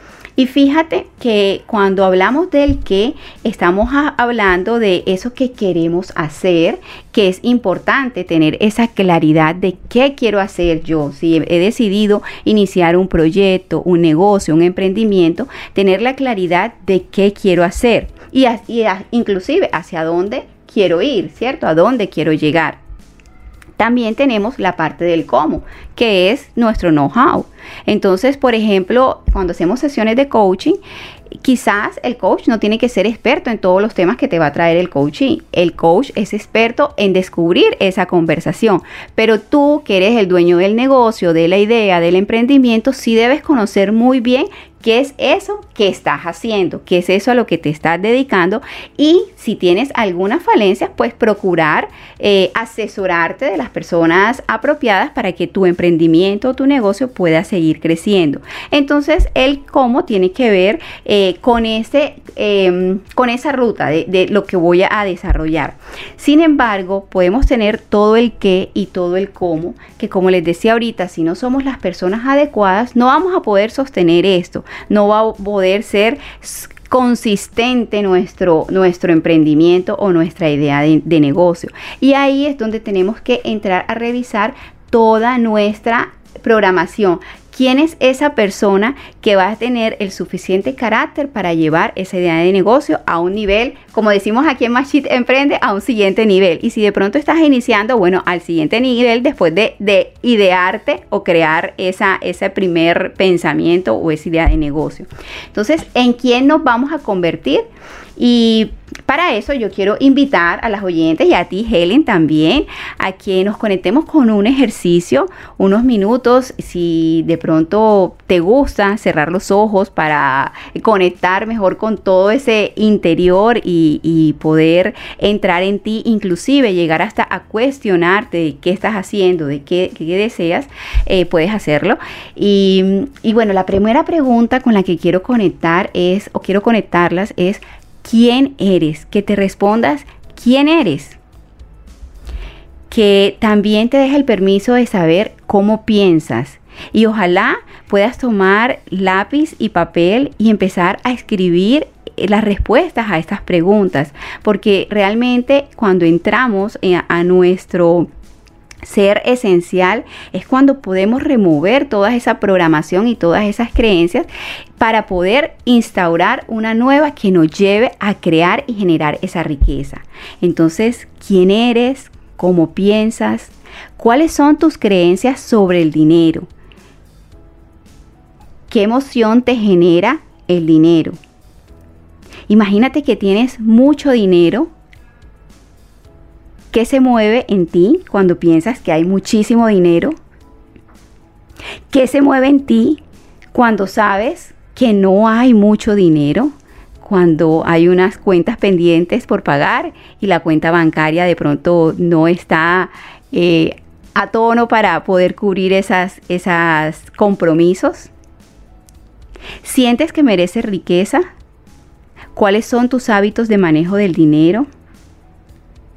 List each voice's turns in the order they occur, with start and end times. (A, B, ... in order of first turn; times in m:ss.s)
0:00.4-0:22.8 A
0:23.8-0:30.8 A
0:31.3-2:21.2 A
2:22.9-2:38.1 A
2:38.8-2:56.5 A
2:58.7-3:01.2 A
3:02.5-3:04.7 A
3:06.7-3:10.2 A
3:11.9-3:13.0 A
3:13.5-3:28.1 A
3:29.6-3:31.3 A
3:32.3-3:34.7 A